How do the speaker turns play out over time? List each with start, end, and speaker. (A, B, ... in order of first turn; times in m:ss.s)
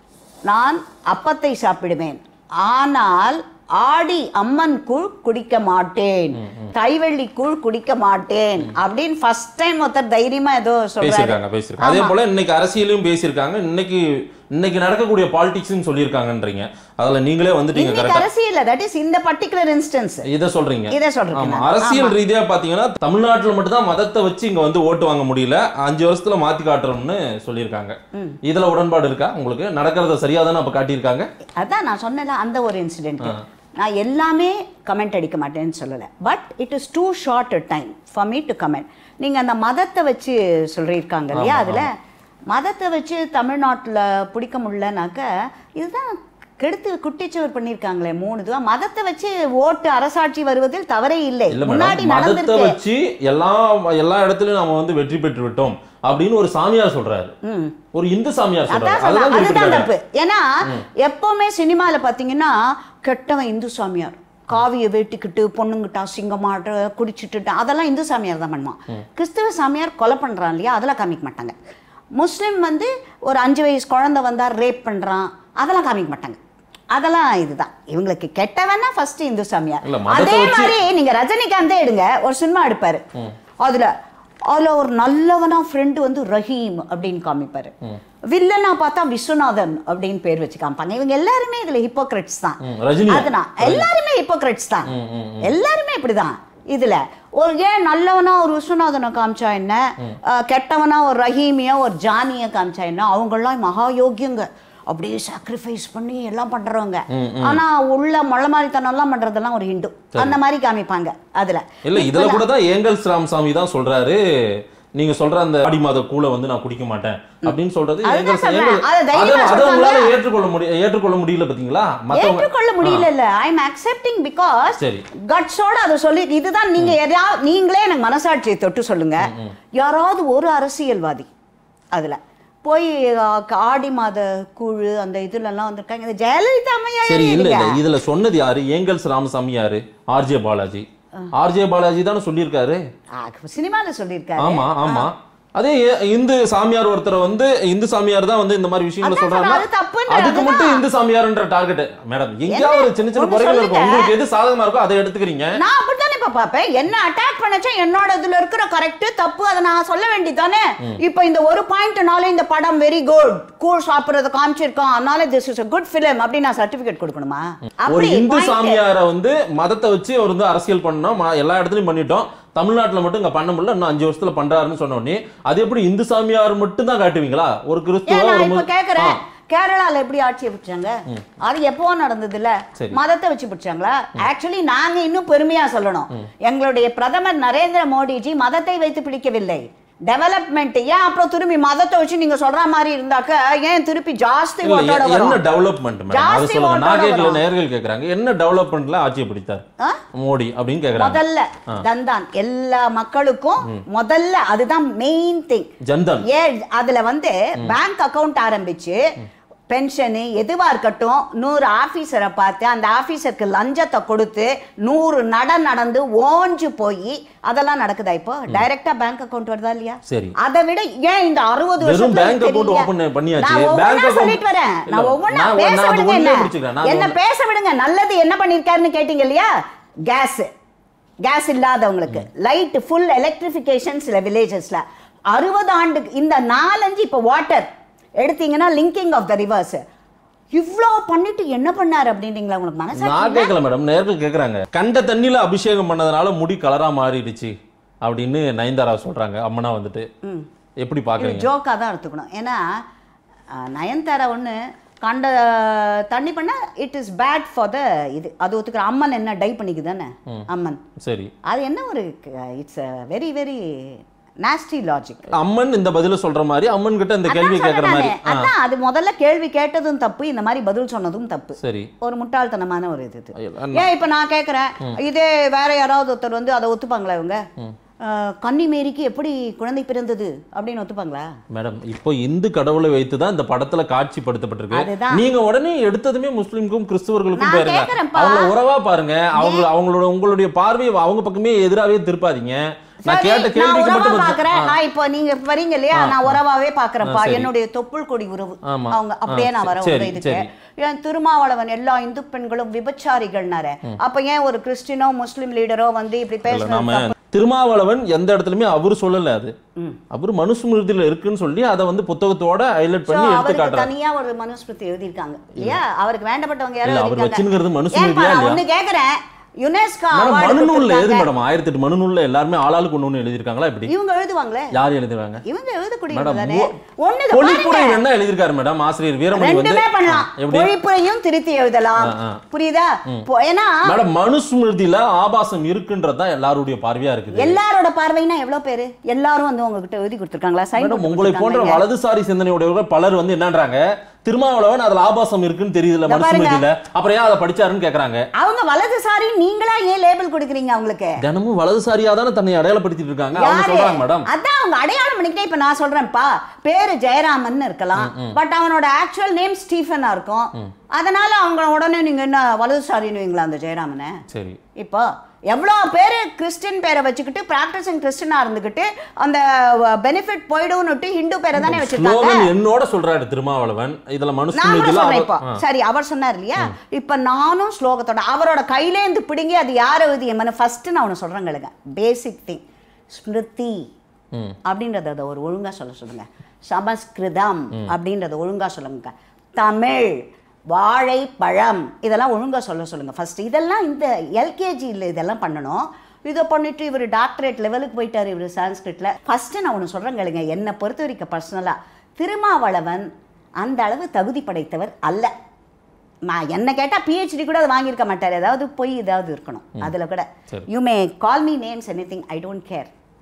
0:00.4-0:12.1 A
0:06.4-0:06.7 B
0:11.0-0:18.2 B
0:17.7-0:20.3 A
0:20.2-0:31.3 B
0:20.9-0:22.2 A
0:31.6-0:42.0 A
0:41.3-0:41.9 B
0:42.5-0:52.8 A
0:51.5-0:57.3 B
0:57.4-0:57.8 A
0:57.9-0:59.9 B
0:58.7-1:11.5 A
1:12.1-1:16.4 A
1:16.9-1:23.0 A
1:19.8-1:20.8 B
1:23.6-1:23.9 A
1:24.5-1:27.7 A
1:28.3-1:52.4 A
1:32.6-1:33.9 B
1:34.9-1:35.5 B
1:47.1-1:47.6 B
1:51.8-2:03.0 B
1:57.4-2:00.1 A
2:02.1-2:11.3 A
2:04.8-2:05.0 B
2:09.2-2:09.5 B
2:11.9-2:17.8 A
2:17.0-2:22.8 B
2:23.1-2:25.1 A
2:24.4-2:35.6 B
2:29.0-2:30.8 A
2:32.5-2:34.1 A
2:35.6-2:48.8 A
2:47.8-2:59.2 B
2:58.1-3:15.4 A
3:14.6-3:21.8 B
3:16.1-3:17.4 A
3:21.0-3:25.7 A
3:25.8-3:26.2 B
3:26.2-3:29.0 A
3:29.7-3:49.5 A
3:40.1-3:40.4 B
3:41.8-3:47.2 B
3:50.0-3:50.5 A
3:51.2-3:57.7 A
3:58.2-3:59.8 A
4:00.5-4:03.5 A
4:02.9-4:10.1 B
4:10.8-4:11.5 B
4:11.2-4:12.8 A
4:13.5-4:20.8 A
4:21.0-4:21.3 B
4:21.4-4:25.3 A
4:25.3-4:28.5 B
4:27.3-4:37.4 A
4:31.6-4:31.9 B
4:33.3-4:33.9 B
4:38.0-4:41.3 A
4:41.5-4:54.7 B
4:44.7-4:45.2 A
4:47.4-4:48.5 A
4:49.3-4:49.7 A
4:53.0-5:07.1 A
4:55.9-4:56.4 B
4:57.0-4:57.5 B
4:58.6-5:00.5 B
5:06.5-5:09.5 B
5:10.1-5:13.9 B
5:13.1-5:21.3 A
5:16.8-5:18.6 B
5:20.1-5:23.9 B
5:23.9-5:24.8 A
5:24.7-5:25.4 B
5:25.4-5:28.0 A
5:26.1-5:26.7 B
5:27.3-5:30.7 B
5:29.3-5:34.0 A
5:32.0-5:32.4 B
5:33.8-5:37.6 B
5:37.3-5:41.8 A
5:40.8-5:48.3 B
5:46.0-5:46.6 A
5:48.4-5:51.2 A
5:51.2-5:54.3 B
5:53.4-6:04.2 A
5:58.0-5:58.4 B
6:04.3-6:04.6 B
6:04.8-6:12.5 A
6:11.6-6:15.6 B
6:14.5-6:23.9 A
6:24.6-6:43.1 A
6:43.6-6:45.3 A
6:46.2-6:52.9 A